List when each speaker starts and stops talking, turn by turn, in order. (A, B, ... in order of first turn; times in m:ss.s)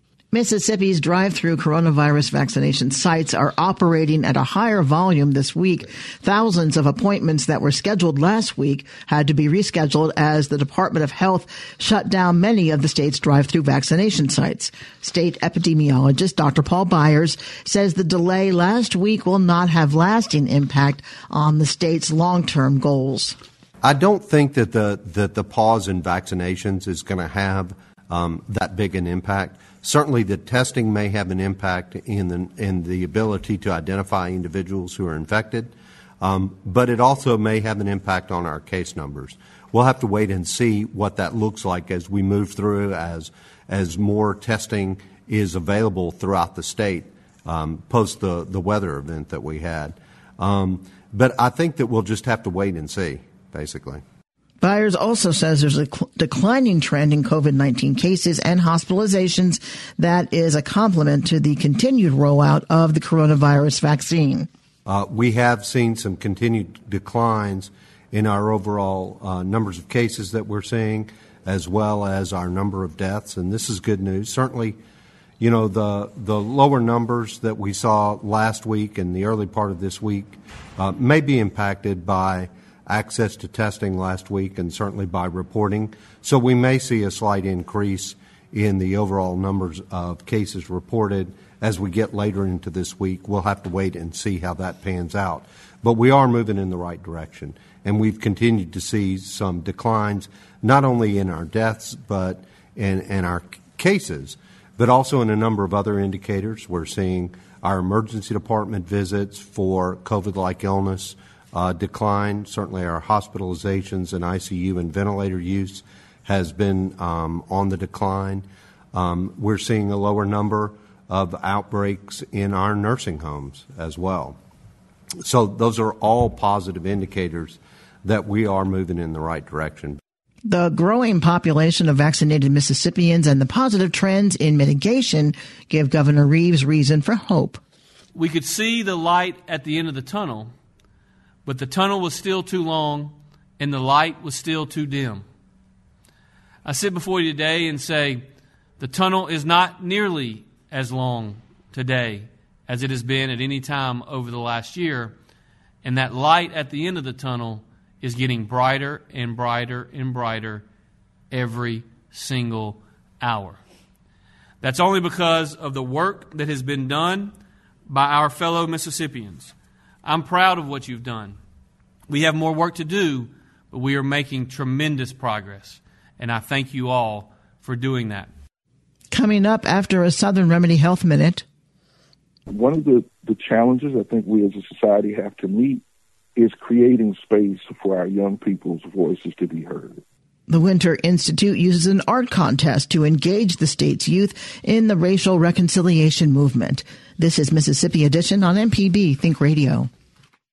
0:00.3-0:23.4 A
0:23.8-0:54.0 B
0:54.6-1:04.5 A
1:04.9-1:14.8 B
1:15.4-2:04.4 B
2:05.2-2:10.0 B
2:10.5-2:17.6 A
2:18.2-2:20.5 C
2:21.5-2:25.3 C
2:26.6-2:28.2 C
2:28.8-2:35.2 C
2:35.8-2:40.7 C
2:41.3-2:43.6 C
2:44.6-2:47.4 C
2:47.9-2:51.4 C
2:52.1-2:58.3 C
2:59.1-3:01.4 A
3:02.5-3:05.8 D
3:06.4-3:10.0 D
3:10.5-3:19.9 A